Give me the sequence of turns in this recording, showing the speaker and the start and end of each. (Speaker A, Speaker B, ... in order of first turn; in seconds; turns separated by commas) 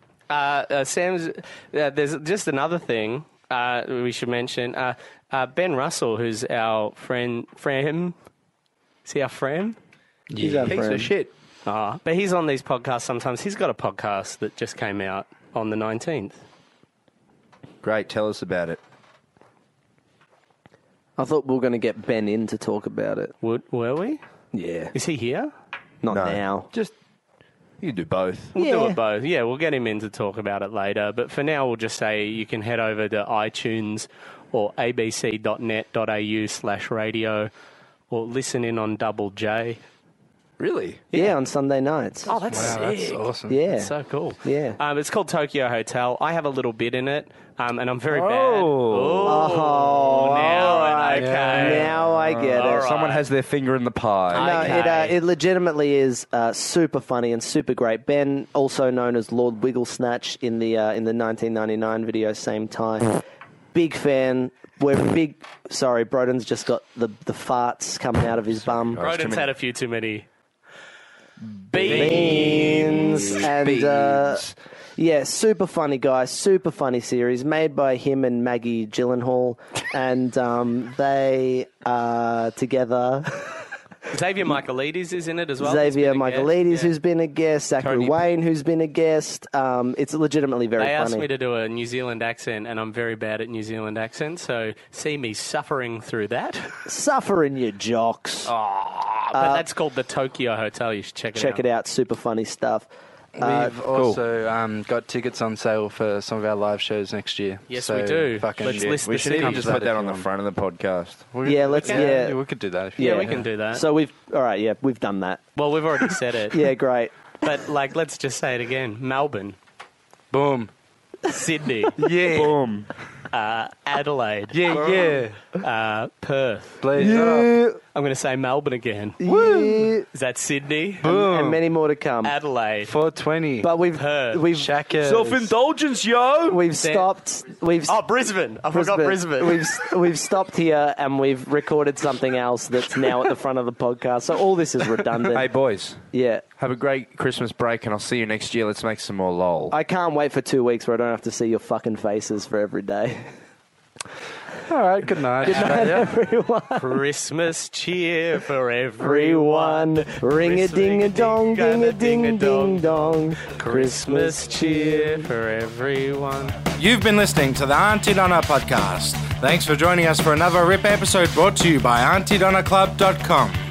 Speaker A: 0.3-8.1, Speaker A: 9.0-9.8, Speaker B: 10.3-10.8, Speaker C: 10.4-11.1, Speaker D: 10.6-11.3, Speaker A: 11.6-16.4, Speaker D: 17.8-18.8, Speaker C: 21.2-23.3, Speaker A: 23.4-24.2, Speaker C: 24.5-24.9, Speaker A: 24.9-25.5, Speaker C: 26.0-26.7, Speaker D: 26.1-26.9, Speaker D: 27.8-28.6, Speaker C: 28.6-29.0, Speaker A: 28.6-37.5, Speaker A: 38.1-39.8, Speaker D: 40.6-41.0, Speaker C: 41.1-42.3, Speaker A: 42.2-53.3, Speaker B: 42.5-43.6, Speaker C: 43.5-43.9, Speaker C: 44.4-44.8, Speaker D: 48.1-49.6, Speaker C: 49.2-52.9, Speaker B: 51.1-51.9, Speaker D: 51.9-54.8, Speaker A: 54.3-55.2, Speaker C: 54.3-63.2, Speaker C: 63.7-69.0, Speaker D: 68.9-69.5, Speaker A: 69.0-70.3, Speaker D: 71.4-74.5, Speaker A: 71.7-73.4, Speaker C: 71.9-74.5, Speaker C: 75.0-83.6, Speaker A: 84.1-86.9, Speaker C: 85.6-91.2, Speaker A: 87.8-88.3, Speaker A: 90.8-96.8, Speaker C: 96.8-98.5, Speaker A: 99.1-101.6, Speaker C: 99.3-99.7, Speaker C: 101.3-103.8, Speaker B: 103.4-110.2, Speaker D: 103.9-104.2, Speaker A: 107.7-109.8, Speaker D: 108.6-111.3, Speaker B: 111.3-113.5, Speaker C: 111.4-112.4, Speaker A: 111.8-112.1, Speaker C: 113.0-115.5, Speaker A: 113.0-113.8, Speaker A: 115.5-116.7, Speaker C: 116.5-117.2, Speaker A: 117.4-119.6, Speaker B: 120.3-120.7, Speaker A: 121.3-121.9, Speaker D: 122.0-122.9, Speaker A: 123.3-124.7, Speaker B: 124.5-125.4, Speaker D: 124.7-125.2, Speaker A: 125.6-127.1, Speaker B: 126.8-127.7, Speaker C: 127.0-127.8, Speaker A: 127.9-129.4, Speaker C: 129.2-130.1, Speaker A: 130.1-131.1, Speaker B: 131.0-131.6, Speaker C: 131.0-132.3, Speaker A: 132.2-132.9, Speaker B: 132.8-133.7, Speaker C: 133.6-134.7, Speaker A: 133.9-134.4, Speaker B: 134.4-135.5, Speaker D: 135.0-136.6, Speaker C: 136.5-138.0, Speaker A: 136.8-137.1, Speaker A: 137.8-139.7, Speaker C: 138.7-145.5, Speaker D: 145.3-146.0, Speaker C: 146.1-146.4, Speaker D: 146.6-149.8, Speaker C: 149.7-153.3, Speaker B: 154.7-156.1, Speaker C: 155.4-157.0, Speaker A: 156.8-166.6, Speaker C: 159.0-165.3, Speaker B: 166.8-168.8, Speaker E: 167.4-169.4, Speaker B: 169.6-171.0, Speaker E: 170.2-173.4, Speaker B: 171.5-173.0